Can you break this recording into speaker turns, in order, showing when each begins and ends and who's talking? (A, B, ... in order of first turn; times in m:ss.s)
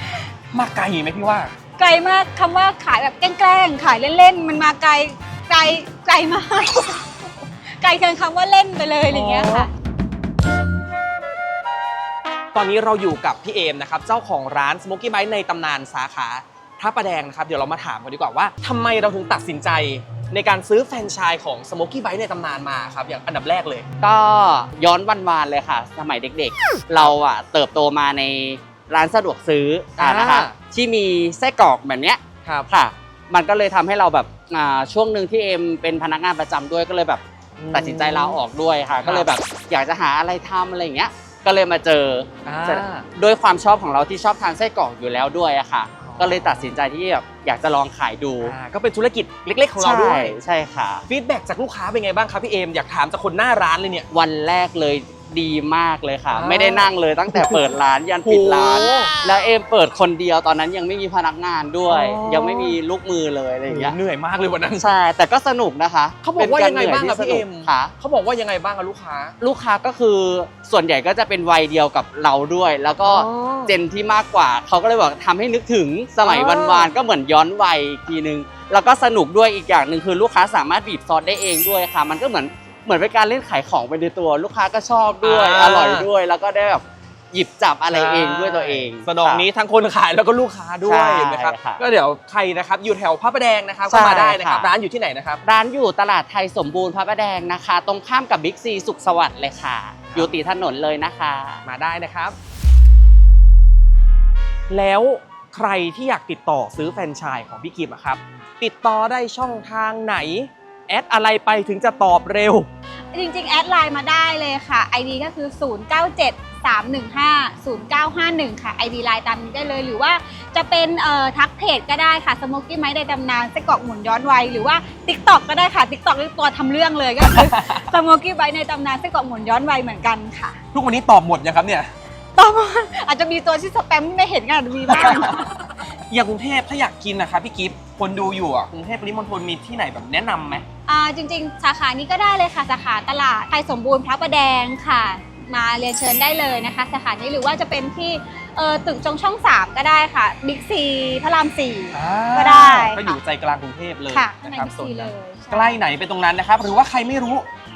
0:00.5-0:01.5 A
0:01.8-0:09.7 B
0:09.1-0:09.7 A
0:12.5-0:23.8 A
0:24.0-0:48.5 C
0:30.0-0:30.6 A
0:37.6-0:38.4 A
0:39.0-0:39.3 A
0:42.4-0:43.1 A
0:46.0-0:46.7 A
0:48.4-0:50.4 A
0:49.8-0:51.0 C
0:51.1-0:54.1 A
0:54.1-1:04.0 C
0:56.3-0:59.1 A
1:01.8-1:02.8 A
1:03.7-1:04.9 A
1:04.8-1:07.9 C
1:06.2-1:09.4 A
1:09.4-1:29.4 C
1:13.0-1:13.8 A
1:16.2-1:16.9 A
1:25.2-1:26.1 A
1:27.9-1:35.4 A
1:30.8-1:31.8 C
1:33.8-1:34.7 C
1:35.4-1:41.6 C
1:41.6-1:42.4 A
1:44.7-1:52.7 A
1:53.1-2:10.6 B
2:07.2-2:07.9 A
2:10.7-2:11.9 A
2:12.4-2:15.7 B
2:14.9-2:20.6 A
2:20.9-2:33.2 B
2:31.9-2:37.5 A
2:34.1-2:35.8 B